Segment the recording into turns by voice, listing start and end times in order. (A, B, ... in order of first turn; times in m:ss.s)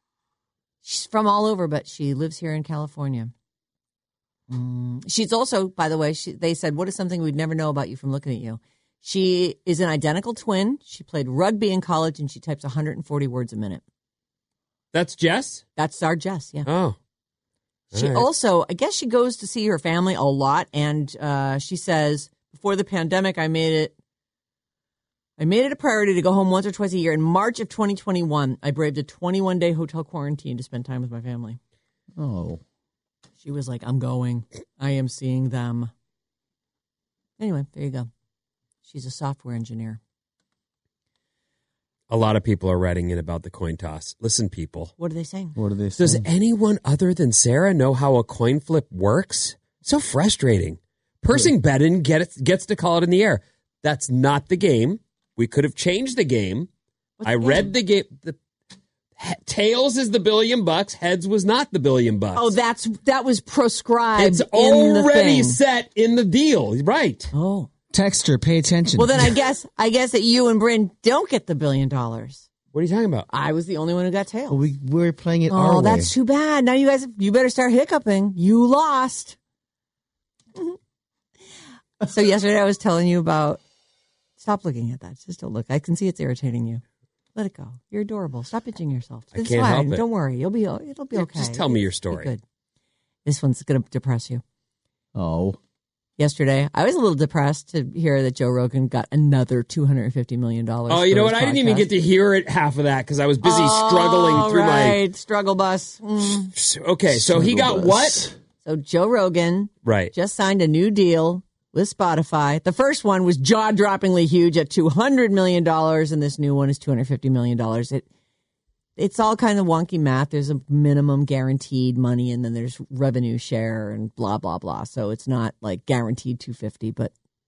0:00.8-0:03.3 A
0:04.5-0:13.8 A
0:14.9-0:15.6 B
0:15.8-0:16.7 A
0:16.6-0:17.0 B
0:17.9-0:18.3 B
0:17.9-0:23.9 A
0:25.4-0:31.6 A
0:32.2-0:32.6 C
0:33.4-0:35.9 A
0:37.4-0:38.1 A
0:38.8-0:40.0 A
0:42.1-0:44.9 B
0:45.0-0:45.6 A
0:45.6-0:46.2 C
0:46.0-0:56.7 B
0:57.2-0:57.7 A
0:57.2-0:58.4 B
0:59.2-1:02.5 B
1:02.3-1:05.6 A
1:04.2-1:07.3 B
1:07.3-1:07.7 A
1:07.9-1:09.4 C
1:08.9-1:12.5 A
1:12.7-1:13.3 B
1:13.3-1:14.6 A
1:14.5-1:16.1 C
1:15.5-1:19.4 A
1:22.0-1:23.6 A
1:24.4-1:26.8 A
1:27.3-1:32.4 A
1:29.3-1:30.0 B
1:31.1-1:32.3 B
1:33.2-1:34.4 A
1:35.1-1:35.6 C
1:36.2-1:41.9 A
1:40.9-1:45.0 B
1:43.4-1:46.5 A
1:46.5-1:48.2 B
1:47.1-1:48.3 C
1:48.6-1:58.0 A
1:49.8-1:50.1 B
1:59.0-2:07.1 A